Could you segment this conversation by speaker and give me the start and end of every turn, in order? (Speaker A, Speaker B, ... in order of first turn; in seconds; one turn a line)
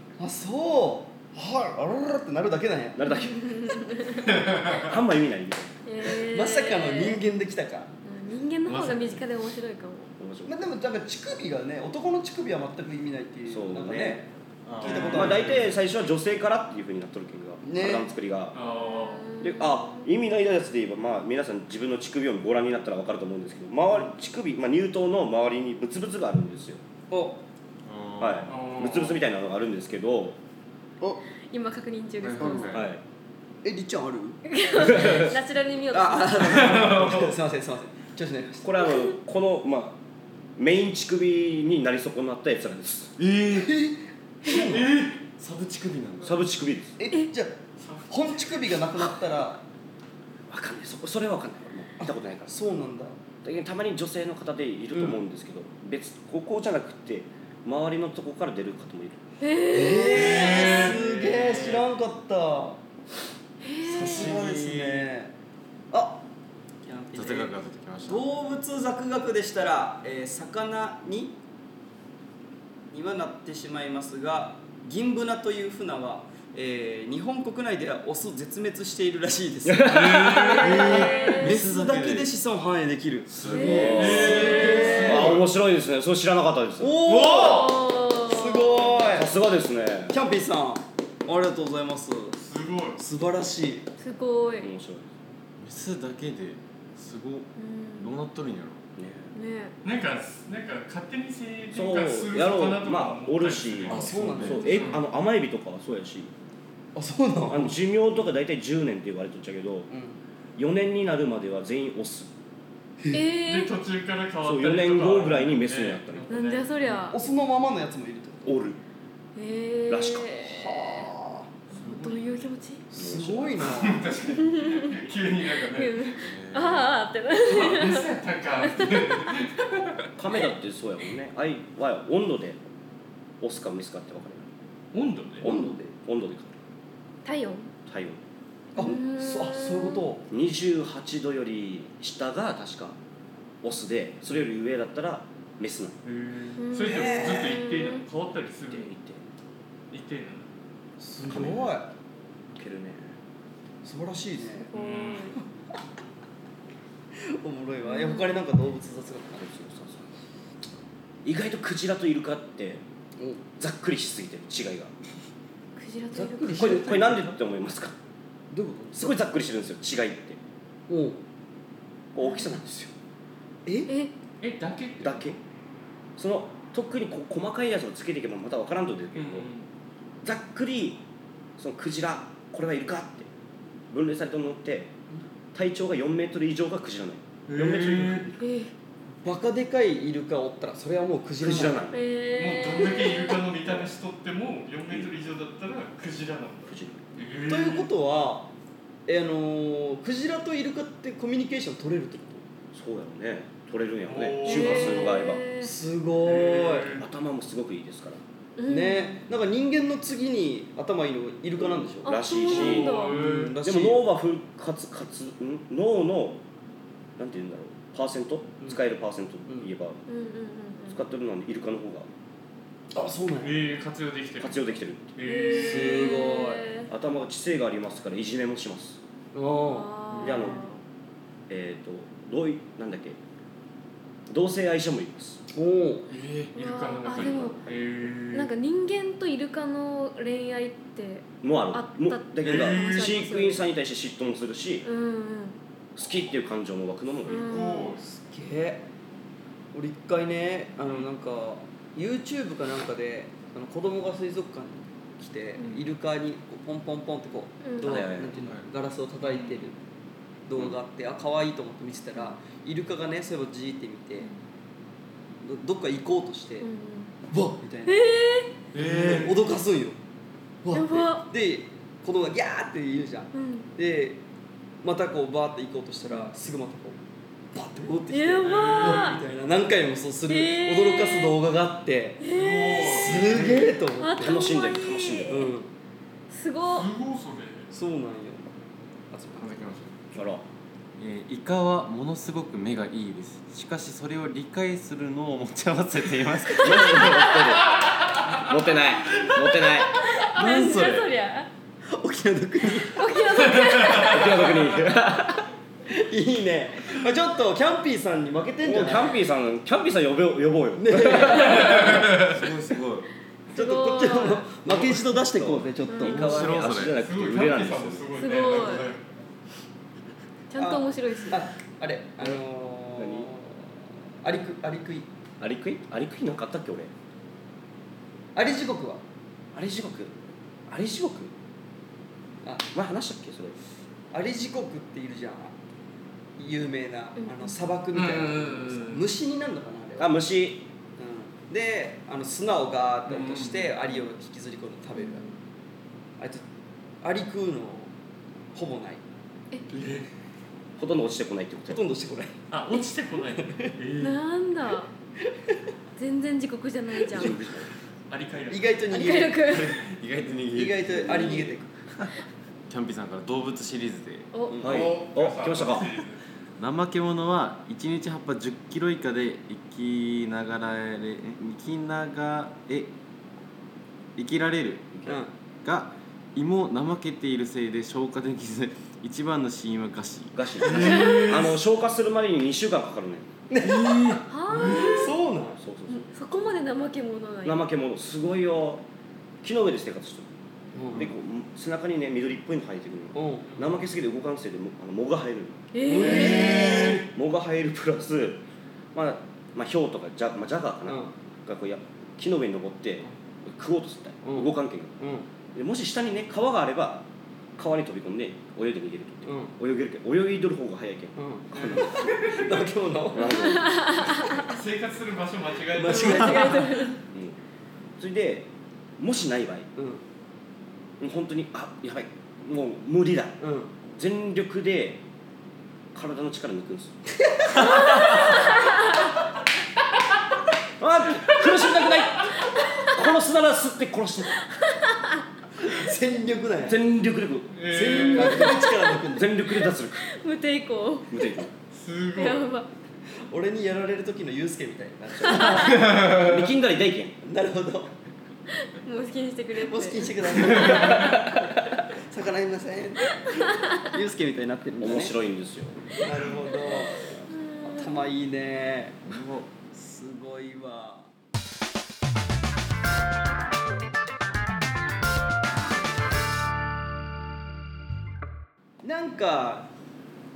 Speaker A: 0.2-3.2
Speaker B: 3.0-4.0
Speaker C: 3.2-4.3
Speaker B: 4.6-5.8
Speaker C: 5.9-7.2
Speaker A: 6.0-7.9
Speaker C: 8.1-10.1
Speaker D: 8.7-9.0
Speaker B: 10.2-10.5
Speaker A: 10.5-14.3
Speaker B: 13.5-14.2
Speaker D: 14.7-15.4
Speaker A: 14.8-15.6
Speaker E: 14.8-15.6
Speaker B: 14.9-18.6
Speaker A: 17.6-18.1
Speaker E: 18.5-19.3
Speaker C: 18.7-20.1
Speaker B: 19.4-26.8
Speaker A: 27.1-27.4
Speaker D: 27.9-28.5
Speaker B: 28.2-30.4
Speaker E: 28.5-29.2
Speaker C: 31.5-32.7
Speaker D: 32.2-32.9
Speaker A: 32.4-32.7
Speaker B: 32.7-33.0
Speaker A: 33.6-34.4
Speaker C: 34.5-36.9
Speaker B: 34.7-35.4
Speaker A: 35.9-38.8
Speaker E: 36.4-37.3
Speaker B: 38.6-40.0
Speaker B: 40.6-43.2
Speaker D: 43.2-43.7
Speaker A: 43.5-44.9
Speaker D: 44.5-46.4
Speaker E: 44.6-45.2
Speaker B: 46.2-47.0
Speaker A: 47.0-47.6
Speaker E: 47.8-48.4
Speaker A: 48.1-49.6
Speaker B: 50.5-52.5
Speaker A: 52.0-53.2
Speaker B: 53.4-59.2
Speaker A: 54.9-55.2
Speaker C: 59.4-60.9
Speaker A: 59.6-62.8
Speaker E: 60.0-61.0
Speaker D: 61.0-61.6
Speaker C: 63.6-64.3
Speaker A: 63.8-65.3
Speaker D: 63.9-65.1
Speaker A: 65.9-66.2
Speaker A: 66.8-71.4
Speaker D: 67.1-68.3
Speaker A: 72.9-85.4
Speaker B: 79.7-81.0
Speaker D: 80.4-82.3
Speaker C: 80.8-81.5
Speaker D: 83.3-84.9
Speaker C: 83.5-85.1
Speaker B: 83.6-87.0
Speaker E: 83.9-85.5
Speaker A: 86.8-89.3
Speaker E: 87.1-87.8
Speaker C: 87.2-88.9
Speaker B: 89.1-90.2
Speaker A: 90.1-92.4
Speaker E: 92.4-93.0
Speaker A: 93.0-93.9
Speaker C: 94.0-94.7
Speaker B: 94.6-95.1
Speaker D: 95.6-98.8
Speaker C: 97.6-98.2
Speaker B: 99.0-99.3
Speaker C: 99.3-99.7
Speaker E: 99.8-104.1
Speaker B: 101.7-106.3
Speaker D: 103.9-104.8
Speaker A: 103.9-104.9
Speaker C: 104.6-104.9
Speaker E: 104.6-105.0
Speaker A: 107.0-107.8
Speaker B: 107.5-109.9
Speaker A: 109.9-110.2
Speaker B: 110.6-112.3
Speaker C: 113.1-113.7
Speaker E: 113.5-117.0
Speaker B: 114.4-116.3
Speaker C: 116.3-117.2
Speaker A: 117.1-118.5
Speaker B: 118.5-118.8
Speaker C: 119.3-120.9
Speaker B: 119.9-120.5
Speaker A: 120.4-121.5
Speaker E: 121.7-122.5
Speaker C: 121.8-122.8
Speaker A: 122.9-124.1
Speaker B: 122.9-123.8
Speaker E: 123.6-126.2
Speaker C: 124.3-125.0
Speaker C: 125.7-128.1
Speaker D: 126.2-126.9
Speaker E: 127.3-130.1
Speaker C: 128.6-129.4
Speaker B: 130.2-132.6
Speaker B: 133.4-134.5
Speaker E: 134.9-135.5
Speaker B: 135.4-136.6
Speaker A: 135.4-135.8
Speaker C: 137.2-137.7
Speaker B: 137.9-138.2
Speaker A: 138.8-140.3
Speaker C: 138.8-140.0
Speaker B: 140.3-143.0
Speaker B: 143.6-146.0
Speaker E: 146.1-148.9
Speaker C: 146.6-148.0
Speaker A: 146.8-147.6
Speaker B: 148.7-149.2
Speaker E: 149.9-150.5
Speaker A: 151.0-151.9
Speaker B: 151.3-151.8
Speaker B: 152.6-153.1
Speaker A: 153.8-154.7
Speaker C: 154.7-155.4
Speaker E: 154.7-155.3
Speaker A: 157.2-159.5
Speaker C: 157.9-158.4
Speaker B: 159.4-160.1
Speaker B: 161.2-162.8
Speaker A: 163.2-163.4
Speaker B: 163.6-164.9
Speaker C: 165.8-166.9
Speaker A: 166.1-167.4
Speaker B: 166.4-168.0
Speaker A: 168.5-169.2
Speaker B: 169.0-170.4
Speaker A: 170.9-171.2
Speaker B: 172.1-172.9
Speaker A: 173.7-173.9
Speaker E: 174.4-175.4
Speaker B: 175.0-175.4
Speaker B: 176.2-179.5
Speaker E: 179.2-179.7
Speaker B: 180.2-181.0
Speaker B: 181.6-183.3
Speaker B: 183.9-184.9
Speaker B: 185.5-188.4
Speaker E: 187.5-188.3
Speaker C: 188.4-188.7
Speaker A: 189.2-191.8
Speaker B: 191.4-192.1
Speaker C: 191.9-193.4
Speaker E: 192.3-197.9
Speaker B: 196.7-197.0
Speaker A: 197.5-198.5
Speaker A: 199.1-202.4
Speaker B: 202.7-205.4
Speaker E: 204.1-205.3
Speaker C: 204.4-205.7
Speaker A: 205.6-207.0
Speaker E: 206.2-207.1
Speaker B: 207.0-208.2
Speaker C: 208.6-209.2
Speaker A: 208.7-212.2
Speaker B: 212.0-213.1
Speaker C: 212.1-213.2
Speaker E: 212.4-213.6
Speaker A: 213.1-214.0
Speaker B: 213.6-216.4
Speaker B: 217.2-220.0
Speaker C: 220.1-221.0
Speaker B: 220.9-222.1
Speaker A: 222.9-223.6
Speaker E: 223.4-226.2
Speaker B: 224.4-225.1
Speaker C: 225.2-226.9
Speaker A: 225.5-226.7
Speaker B: 226.9-229.0
Speaker A: 229.3-230.5
Speaker C: 229.7-230.8
Speaker B: 230.2-230.6
Speaker B: 231.5-233.2
Speaker B: 234.3-235.4
Speaker A: 235.5-236.1
Speaker E: 236.1-238.5
Speaker C: 236.6-237.6
Speaker B: 237.1-237.8
Speaker C: 238.3-243.6
Speaker B: 241.4-244.9
Speaker E: 242.4-243.2
Speaker C: 244.8-245.6
Speaker B: 246.0-247.7
Speaker C: 247.3-248.0
Speaker E: 247.3-248.0
Speaker A: 248.0-248.8
Speaker A: 249.7-259.8
Speaker C: 257.6-258.1
Speaker B: 257.8-258.4
Speaker D: 258.4-258.7
Speaker E: 259.2-259.7
Speaker A: 260.5-264.3
Speaker A: 265.4-266.7
Speaker C: 266.6-267.1
Speaker A: 267.3-268.0
Speaker C: 267.9-268.6
Speaker D: 268.7-269.4
Speaker A: 268.8-270.0
Speaker A: 270.6-274.2
Speaker C: 270.7-271.3
Speaker C: 273.3-273.7
Speaker A: 274.8-277.0
Speaker A: 277.5-284.4
Speaker C: 278.1-279.2
Speaker E: 278.4-279.5
Speaker C: 280.3-281.4
Speaker C: 282.2-285.5
Speaker E: 282.3-283.7
Speaker B: 284.2-285.5
Speaker A: 285.3-285.7
Speaker C: 286.3-286.9
Speaker E: 286.7-287.7
Speaker A: 287.7-288.5
Speaker A: 289.1-289.5
Speaker D: 289.4-289.9
Speaker B: 290.1-290.4
Speaker D: 291.0-297.0
Speaker B: 296.6-300.0
Speaker C: 296.8-297.3
Speaker C: 299.9-301.5
Speaker D: 300.4-301.0
Speaker A: 300.4-301.0
Speaker A: 301.9-303.7
Speaker C: 302.7-304.5
Speaker B: 303.8-305.5
Speaker A: 305.9-309.2
Speaker B: 308.6-312.1
Speaker A: 310.8-312.0
Speaker D: 311.5-313.1
Speaker C: 313.5-314.5
Speaker A: 313.5-316.6
Speaker B: 314.7-318.1
Speaker C: 315.9-316.3
Speaker D: 316.0-317.0
Speaker E: 316.8-319.0
Speaker C: 318.1-318.9
Speaker C: 320.5-321.4
Speaker A: 320.6-325.1
Speaker B: 323.0-323.3
Speaker B: 325.4-326.9
Speaker A: 328.4-329.0
Speaker B: 329.5-330.2
Speaker B: 330.7-331.3
Speaker B: 332.7-333.6
Speaker A: 334.1-335.5
Speaker A: 336.4-340.2
Speaker C: 337.2-337.6
Speaker E: 337.9-339.0
Speaker B: 340.0-340.7
Speaker A: 341.0-345.3
Speaker E: 343.1-343.7
Speaker C: 345.0-345.4
Speaker A: 346.2-346.4
Speaker A: 347.0-347.9
Speaker A: 348.5-349.0
Speaker E: 349.7-350.1
Speaker B: 350.8-351.8
Speaker A: 351.7-352.4
Speaker E: 352.5-354.2
Speaker A: 353.4-353.8
Speaker C: 354.0-354.9
Speaker C: 356.0-357.4
Speaker B: 357.1-357.7
Speaker E: 358.1-358.8
Speaker A: 358.5-359.6
Speaker C: 358.9-359.9
Speaker D: 359.4-362.1
Speaker A: 360.5-361.7
Speaker D: 362.7-364.3
Speaker C: 364.3-364.6
Speaker A: 364.5-365.0
Speaker B: 364.6-365.9
Speaker E: 364.6-366.2
Speaker D: 366.6-372.9
Speaker D: 374.2-375.0
Speaker B: 374.9-375.2
Speaker A: 375.1-375.3
Speaker D: 375.6-380.4
Speaker B: 380.3-383.4
Speaker E: 380.6-381.5
Speaker A: 383.5-385.6
Speaker C: 384.3-385.1
Speaker E: 384.5-385.0
Speaker B: 385.6-386.1
Speaker C: 385.9-387.6
Speaker B: 387.4-388.8
Speaker B: 389.4-390.3
Speaker A: 390.7-391.1
Speaker B: 390.9-398.4
Speaker A: 393.1-393.5
Speaker C: 395.7-396.9
Speaker A: 395.9-397.1
Speaker E: 396.1-397.0
Speaker B: 398.9-404.9
Speaker A: 400.9-401.1
Speaker A: 404.2-405.3
Speaker B: 405.5-407.1
Speaker B: 407.6-412.1
Speaker A: 409.3-409.5
Speaker A: 411.2-413.6
Speaker E: 411.5-412.7
Speaker B: 413.1-414.1
Speaker C: 413.6-414.4
Speaker E: 414.4-416.8
Speaker A: 415.7-416.9
Speaker C: 415.9-417.0
Speaker B: 417.1-417.4
Speaker B: 418.0-419.7
Speaker A: 419.8-420.0
Speaker B: 421.0-425.0
Speaker A: 423.4-423.7
Speaker B: 425.9-427.0
Speaker A: 427.1-428.3
Speaker B: 427.5-428.4
Speaker B: 430.8-434.4
Speaker C: 434.5-435.2
Speaker A: 435.6-436.8
Speaker B: 436.6-438.5
Speaker E: 437.5-438.5
Speaker A: 437.6-439.4
Speaker C: 438.2-439.0
Speaker B: 439.1-440.1
Speaker C: 439.5-441.5
Speaker B: 441.1-441.5
Speaker E: 441.7-442.5
Speaker C: 442.1-442.7
Speaker A: 443.3-446.0
Speaker B: 445.2-447.2
Speaker A: 447.2-447.9
Speaker C: 448.7-451.0
Speaker A: 449.6-451.4
Speaker B: 450.9-451.2
Speaker A: 451.9-455.1
Speaker B: 454.8-456.1
Speaker A: 456.0-461.1
Speaker C: 456.7-458.0
Speaker A: 468.8-469.7